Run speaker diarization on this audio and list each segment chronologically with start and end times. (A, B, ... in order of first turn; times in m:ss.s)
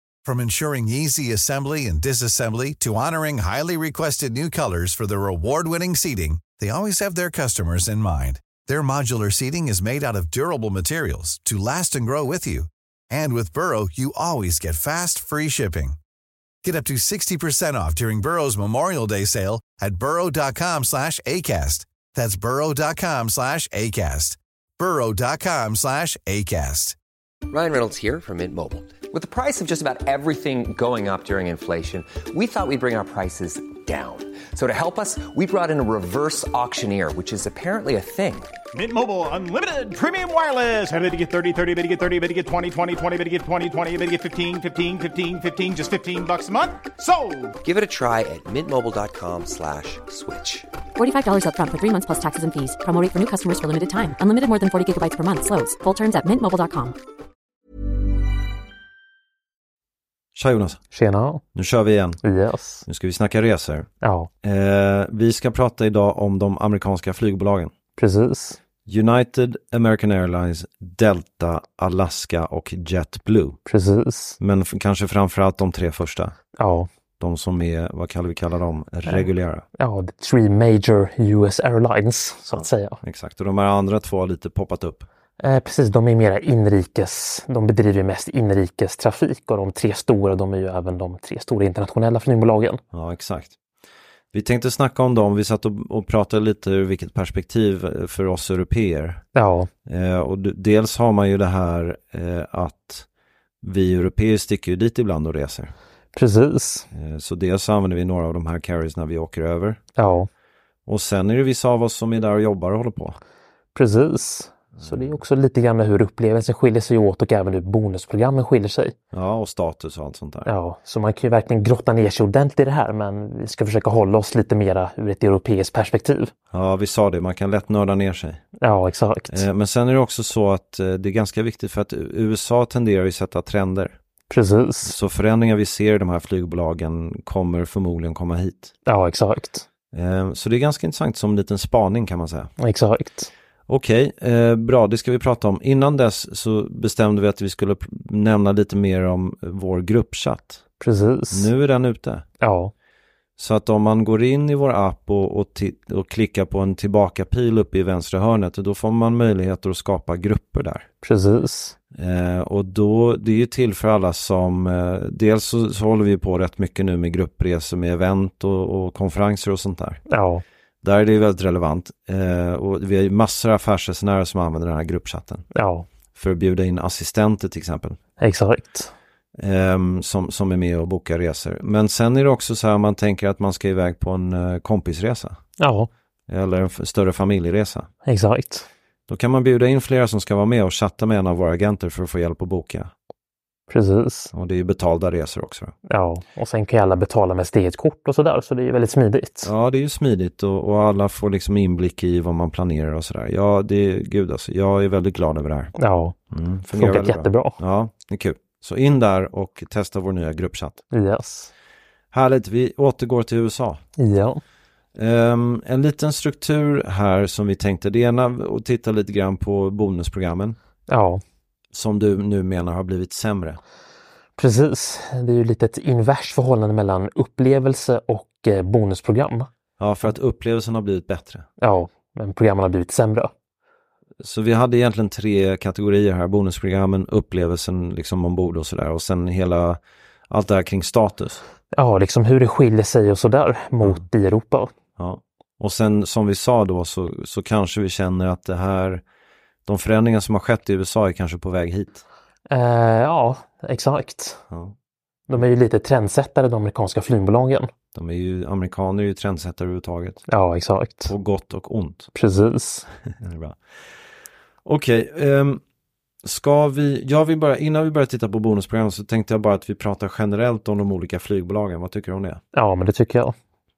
0:00.2-0:16.0 A
0:16.6-0:27.0 A
0:27.5-0:38.5 B
0:38.7-0:47.5 C
0:47.6-0:50.7 B
0:51.0-0:57.0 D
1:00.4-1:00.8 E
1:00.9-1:01.4 F
1:01.5-1:02.2 E
1:02.2-1:02.8 F
1:02.8-1:03.9 E
1:04.0-1:04.3 F
1:04.4-1:07.7 E
1:08.0-1:08.6 F
1:08.8-1:13.6 E
1:13.7-1:14.4 F
1:14.4-1:16.3 E
1:16.6-1:16.9 F
1:17.2-1:19.6 E
1:19.8-1:23.0 F
1:22.5-1:25.1 E
1:25.4-1:32.8 F
1:32.9-1:33.5 E
1:34.3-1:39.2 E
1:39.3-1:39.7 F
1:39.9-1:43.0 E
1:43.6-1:45.7 E
1:46.1-1:46.9 F
1:46.9-1:49.8 E
1:50.0-1:50.3 F
1:50.8-1:53.2 E
1:53.7-1:58.9 F
1:54.8-1:55.2 E
1:59.1-2:00.5 E
2:00.4-2:06.3 F
2:06.5-2:08.4 E
2:08.6-2:09.4 F
2:09.3-2:13.9 E
2:14.3-2:14.9 F
2:14.8-2:18.7 E
2:18.8-2:19.6 F
2:19.9-2:22.5 E
2:22.6-2:23.3 F
2:23.7-2:30.6 E
2:30.8-2:31.5 F
2:31.3-2:32.2 E
2:32.4-2:32.7 F
2:33.4-2:40.9 E
2:41.0-2:41.7 F
2:41.9-2:50.0 E
2:50.1-2:50.4 F
2:50.8-2:55.5 E
2:55.5-2:55.9 F
2:56.1-2:58.0 E
2:58.2-2:58.9 F
2:59.4-3:05.4 E
3:05.6-3:05.9 F
3:06.3-3:07.9 E
3:08.0-3:08.7 F
3:09.1-3:12.9 E
3:13.7-3:14.3 F
3:14.3-3:15.7 E
3:15.9-3:19.5 F
3:19.4-3:25.7 E
3:25.8-3:26.2 F
3:26.3-3:30.8 E
3:26.7-3:27.6 F
3:30.9-3:31.5 F
3:32.1-3:33.8 E
3:34.0-3:34.4 F
3:35.0-3:40.6 E
3:40.9-3:41.2 F
3:41.7-3:43.6 E
3:44.4-3:49.5 F
3:49.8-3:51.5 E
3:51.6-3:53.3 F
3:54.2-3:59.8 E
4:00.3-4:01.4 E
4:01.7-4:04.7 F
4:05.0-4:09.0 E
4:09.6-4:12.0 E
4:12.5-4:14.4 F
4:15.3-4:17.7 F
4:17.9-4:20.2 E
4:20.3-4:21.1 F
4:21.0-4:22.1 E
4:22.1-4:22.8 F
4:23.2-4:23.6 E
4:24.6-4:25.6 E
4:26.2-4:32.4 E
4:32.5-4:33.3 F